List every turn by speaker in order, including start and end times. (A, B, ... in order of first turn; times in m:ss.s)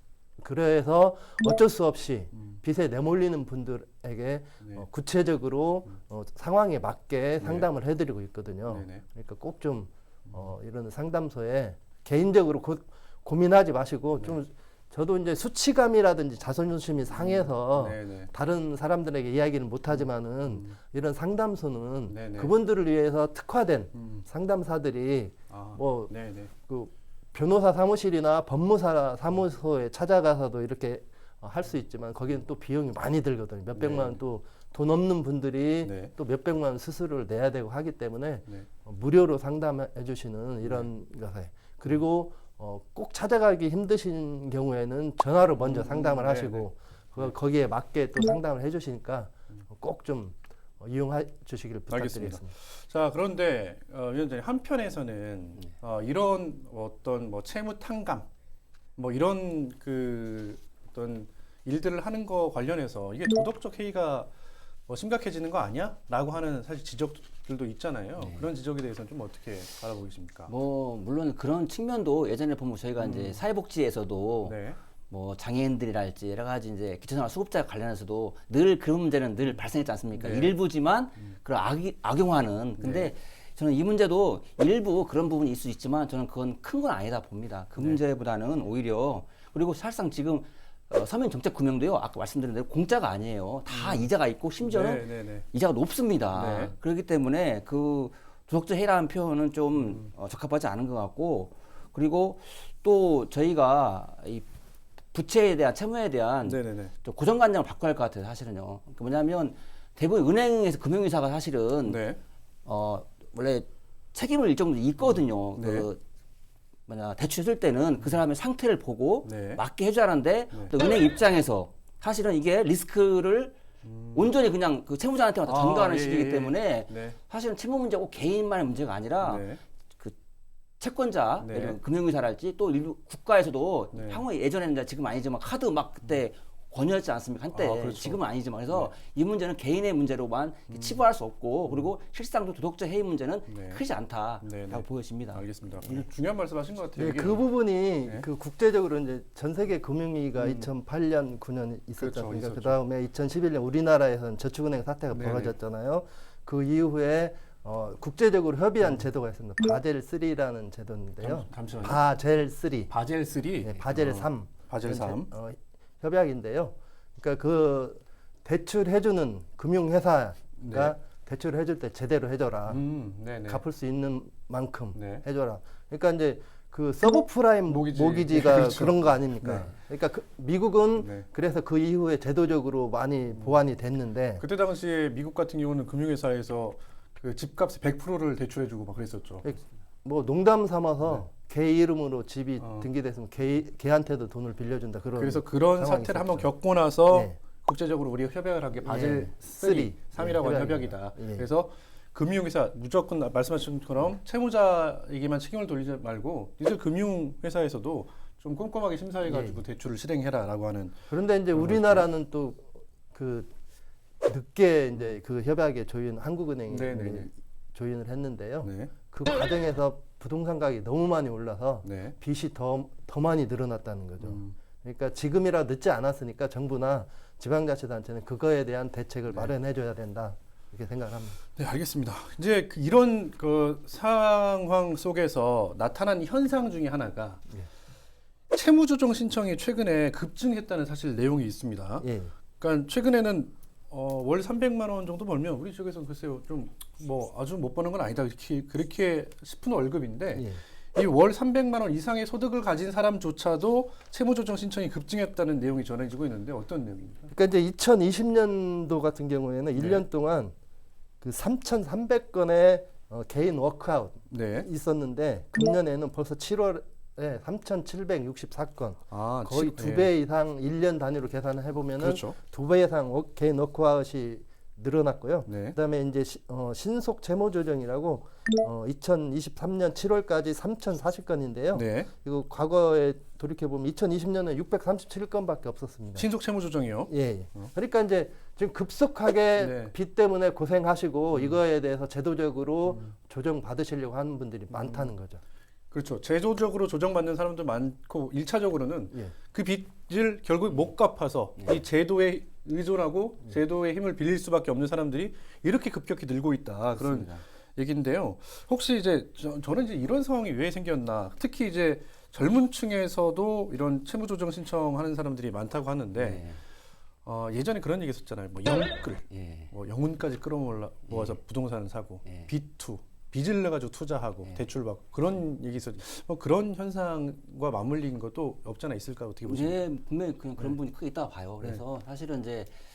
0:00.4-0:26.1 A
0:07.4-0:07.7 B
0:08.7-0:09.0 B
0:17.2-0:18.3 B
0:20.5-0:20.8 B
0:22.1-0:22.5 B
0:24.0-0:24.2 B
0:25.5-0:26.5 B
0:26.7-0:52.5 A
0:33.8-0:34.2 B
0:35.8-0:36.1 B
0:45.6-0:46.7 B
0:51.9-0:58.3 B
0:59.0-1:04.3 B
1:04.9-1:10.5 B
1:08.2-1:08.4 C
1:10.5-1:14.6 C
1:13.0-1:13.4 B
1:14.4-1:14.8 B
1:15.1-1:44.5 C
1:20.1-1:20.6 B
1:22.8-1:23.1 B
1:33.7-1:34.1 B
1:34.6-1:35.5 B
1:36.3-1:36.7 B
1:39.8-1:40.1 B
1:45.1-1:52.0 C
1:46.4-1:46.9 B
1:51.8-1:52.2 B
1:52.7-1:56.0 C
1:55.6-1:55.9 B
1:56.9-2:03.6 C
1:59.3-1:59.6 B
2:03.8-2:04.3 B
2:04.1-2:09.4 C
2:05.5-2:07.2 B
2:09.2-2:09.6 B
2:10.8-2:26.1 C
2:11.4-2:11.8 B
2:13.9-2:14.2 B
2:17.5-2:18.9 B
2:20.7-2:21.0 B
2:23.5-2:23.8 B
2:24.4-2:27.4 B
2:27.0-2:42.9 A
2:30.4-2:30.7 B
2:32.0-2:32.8 B
2:35.1-2:35.5 B
2:41.2-2:42.0 B
2:42.9-2:45.3 B
2:43.6-2:52.8 A
2:50.6-2:51.0 B
2:52.7-2:53.6 B
2:53.5-3:04.4 A
2:55.0-2:55.2 B
2:57.7-2:59.7 B
3:01.0-3:01.3 B
3:04.4-3:09.4 B
3:09.4-3:16.5 A
3:12.6-3:12.9 B
3:15.2-3:31.0 B
3:17.1-3:17.4 A
3:18.8-3:21.5 A
3:29.3-3:29.6 A
3:31.1-3:33.5 A
3:31.5-3:32.1 B
3:34.2-3:51.4 A
3:36.7-3:37.3 B
3:38.6-3:38.9 B
3:41.8-3:42.2 B
3:44.2-3:44.6 B
3:51.6-3:57.4 B
3:58.5-4:02.1 B
4:02.0-4:02.3 A
4:02.6-4:17.3 B
4:10.4-4:10.6 A
4:17.3-4:20.6 A
4:19.8-4:20.0 B
4:21.2-4:46.3 A
4:24.3-4:24.7 B
4:29.1-4:30.1 B
4:32.0-4:32.4 B
4:35.5-4:35.8 B
4:41.7-4:42.1 B
4:46.2-4:47.7 B
4:47.1-4:55.4 A
4:49.6-4:49.9 B
4:54.7-4:55.1 B
4:55.9-5:16.4 B
5:07.0-5:07.4 C
5:16.2-5:16.6 C
5:17.2-5:29.8 B
5:19.3-5:19.7 C
5:21.1-5:21.4 C
5:29.4-5:32.8 C